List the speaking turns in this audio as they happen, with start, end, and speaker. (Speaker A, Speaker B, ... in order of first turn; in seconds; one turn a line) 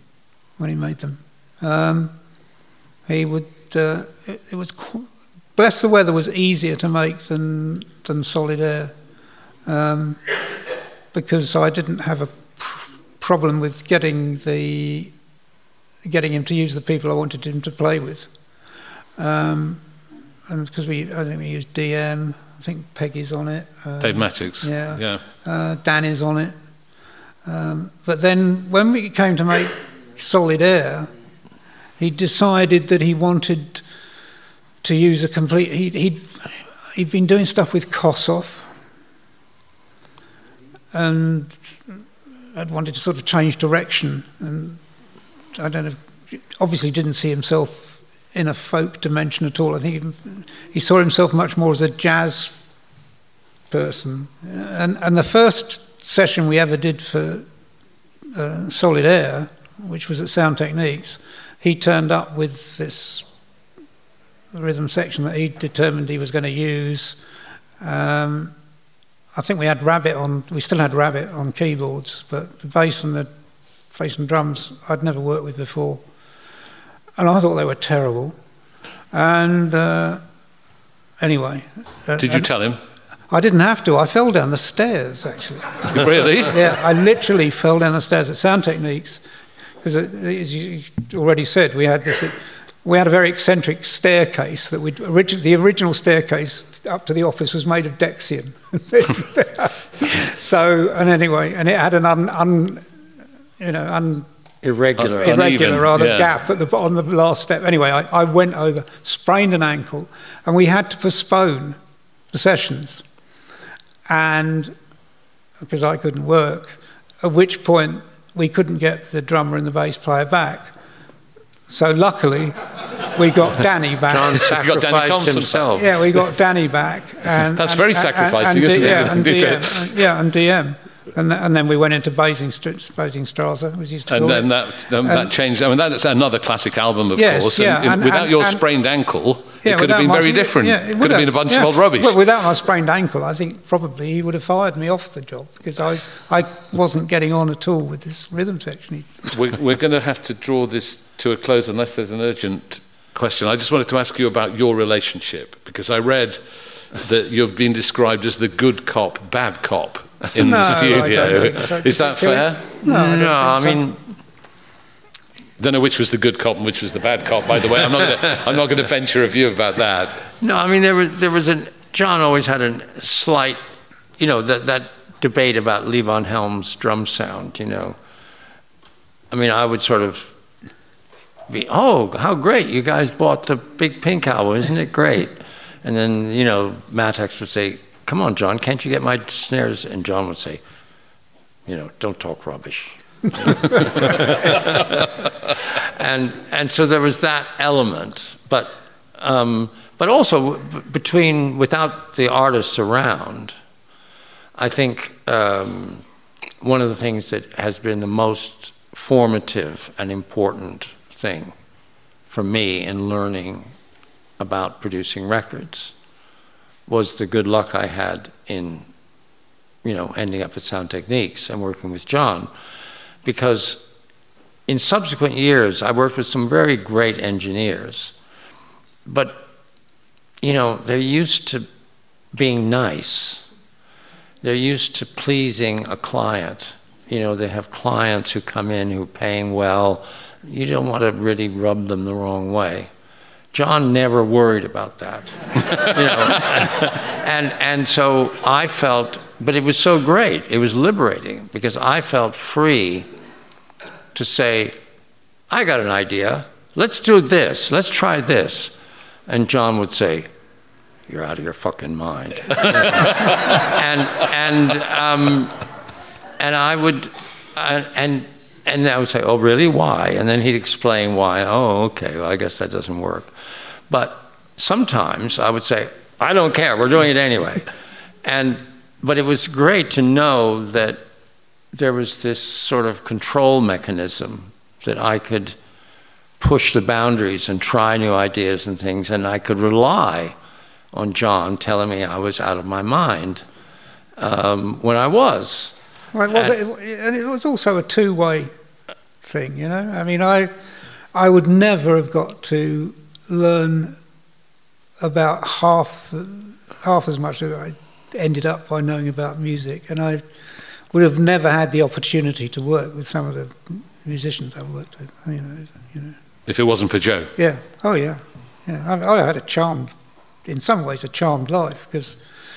Speaker A: 0.6-2.1
Speaker A: 3.1-8.9
Speaker A: 9.7-10.3
Speaker A: 11.1-15.1
Speaker A: 16.0-18.3
Speaker A: 19.2-19.8
Speaker A: 20.5-26.6
Speaker B: 24.0-25.2
Speaker A: 27.4-31.1
Speaker A: 32.0-33.8
Speaker A: 34.8-38.7
Speaker A: 40.9-44.8
Speaker A: 45.5-52.5
Speaker A: 53.7-57.5
Speaker A: 58.3-63.3
Speaker A: 64.5-67.2
Speaker A: 67.8-68.5
Speaker A: 69.3-73.3
Speaker A: 73.9-76.0
Speaker A: 77.2-78.4
Speaker A: 79.1-80.2
Speaker A: 81.2-82.5
Speaker B: 82.2-82.8
Speaker A: 83.3-89.2
Speaker B: 85.9-86.8
Speaker A: 89.8-102.8
Speaker A: 103.6-104.3
Speaker C: 104.6-105.6
Speaker B: 105.0-106.3
Speaker A: 105.1-111.8
Speaker A: 112.3-113.0
Speaker A: 114.1-114.7
Speaker A: 115.6-120.7
Speaker A: 121.7-124.5
Speaker C: 124.1-126.0
Speaker B: 124.5-125.8
Speaker A: 125.8-134.5
Speaker B: 127.4-130.0
Speaker B: 134.1-142.2
Speaker A: 135.0-135.3
Speaker A: 137.2-138.6
Speaker A: 139.6-149.4
Speaker B: 149.3-162.7
Speaker A: 160.3-163.8
Speaker C: 162.8-164.0
Speaker B: 165.6-170.2
Speaker C: 170.4-173.6
Speaker C: 174.2-178.0
Speaker C: 179.3-180.3
Speaker C: 181.5-190.6
Speaker C: 191.7-203.6
Speaker C: 204.6-206.0
Speaker C: 206.6-211.6
Speaker C: 212.3-213.7
Speaker C: 214.4-215.9
Speaker C: 216.9-218.9
Speaker C: 219.8-222.5
Speaker C: 223.2-223.8
Speaker C: 224.7-228.1
Speaker C: 229.1-229.5
Speaker C: 230.4-231.7
Speaker C: 232.3-233.4
Speaker C: 234.4-242.9
Speaker C: 243.5-253.1
Speaker C: 254.1-254.8
Speaker C: 255.5-258.8
Speaker C: 259.3-260.3
Speaker C: 261.1-265.6
Speaker C: 266.4-273.3
Speaker C: 273.9-277.7
Speaker C: 278.2-281.0
Speaker C: 281.7-285.6
Speaker C: 286.4-290.4
Speaker C: 290.9-293.4
Speaker C: 294.2-295.8
Speaker A: 296.1-298.5
Speaker A: 299.2-300.5
Speaker A: 301.1-304.0
Speaker A: 305.0-310.2
Speaker A: 310.9-316.2
Speaker B: 316.5-317.3
Speaker A: 317.4-319.9
Speaker A: 320.4-322.2